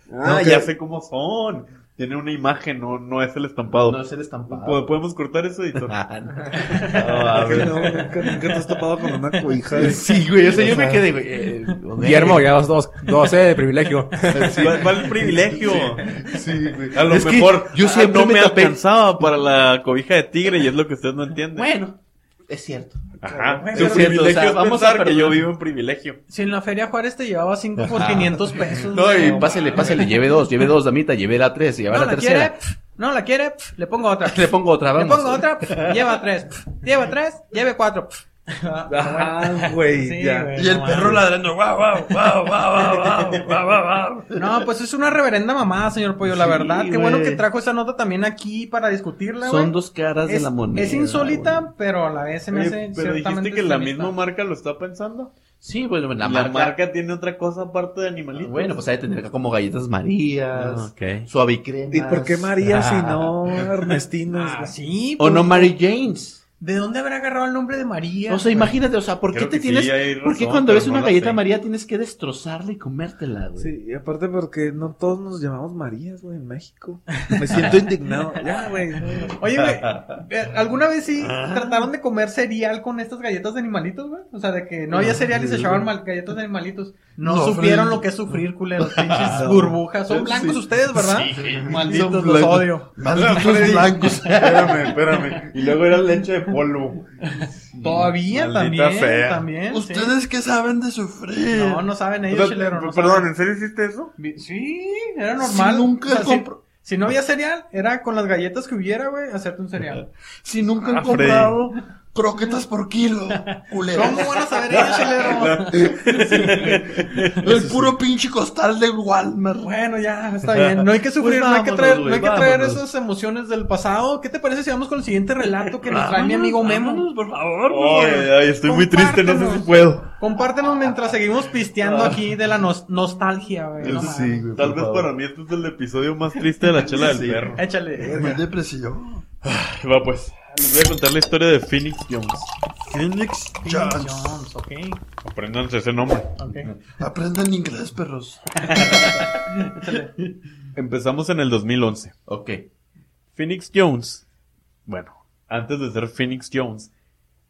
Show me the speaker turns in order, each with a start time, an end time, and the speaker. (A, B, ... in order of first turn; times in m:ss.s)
0:00.2-0:00.6 A
0:00.2-0:06.0 B
0:03.7-0:04.8 C
0:05.8-0:08.0 C
0:06.5-0:07.8 B
0:07.3-0:10.1 A
0:09.7-0:12.5 C
0:10.6-0:10.9 A
0:12.0-0:14.8 D
0:14.5-0:14.8 A
0:14.5-0:16.2 B
0:15.3-0:18.8 C
0:16.6-0:16.9 E
0:16.9-0:21.7 B
0:21.6-0:23.1 C
0:23.2-0:26.2 B
0:23.5-0:24.2 F
0:23.7-0:25.4 C
0:26.3-0:30.2 F
0:27.9-0:32.6 C
0:31.9-0:41.3 F
0:34.2-0:36.2 C
0:38.9-0:40.9 A
0:40.5-0:44.4 E
0:44.3-0:49.7 F
0:46.2-0:47.4 C
0:49.4-0:51.7 C
0:50.2-0:54.2 F
0:52.5-0:55.3 B
0:55.6-0:56.7 C
0:56.2-0:58.8 B
0:58.4-1:03.9 C
1:00.5-1:01.3 B
1:01.9-1:04.7 A
1:04.3-1:05.7 F
1:05.2-1:06.4 C
1:06.6-1:08.7 F
1:08.3-1:13.7 C
1:09.3-1:11.4 B
1:13.6-1:19.4 A
1:17.2-1:32.9 F
1:21.2-1:21.9 E
1:25.0-1:25.8 E
1:27.2-1:28.1 E
1:29.0-1:29.5 E
1:29.1-1:29.4 C
1:30.1-1:30.6 E
1:30.9-1:32.0 B
1:31.3-1:35.2 E
1:31.4-1:31.9 C
1:33.1-1:37.2 B
1:34.3-1:34.7 C
1:37.2-1:40.1 F
1:38.2-1:39.4 B
1:39.7-1:41.9 E
1:41.5-1:43.3 F
1:42.3-1:44.1 B
1:44.2-1:50.0 F
1:45.5-1:46.5 E
1:46.1-1:46.4 C
1:50.4-1:59.7 E
1:50.9-1:51.6 B
1:53.3-1:56.1 F
1:54.8-1:55.0 C
1:55.3-1:57.9 B
1:59.6-2:07.1 F
2:01.2-2:02.8 C
2:05.9-2:08.3 E
2:07.7-2:10.1 B
2:08.6-2:14.5 F
2:13.8-2:15.0 E
2:13.9-2:17.6 B
2:14.6-2:15.0 C
2:16.9-2:19.2 E
2:17.5-2:18.4 F
2:19.4-2:22.5 B
2:22.8-2:24.4 E
2:23.6-2:25.0 F
2:25.2-2:26.3 B
2:26.4-2:26.7 F
2:26.9-2:28.5 E
2:28.6-2:30.1 F
2:28.8-2:29.2 C
2:30.7-2:32.1 B
2:32.3-2:32.6 C
2:33.3-2:34.2 B
2:34.9-2:36.9 B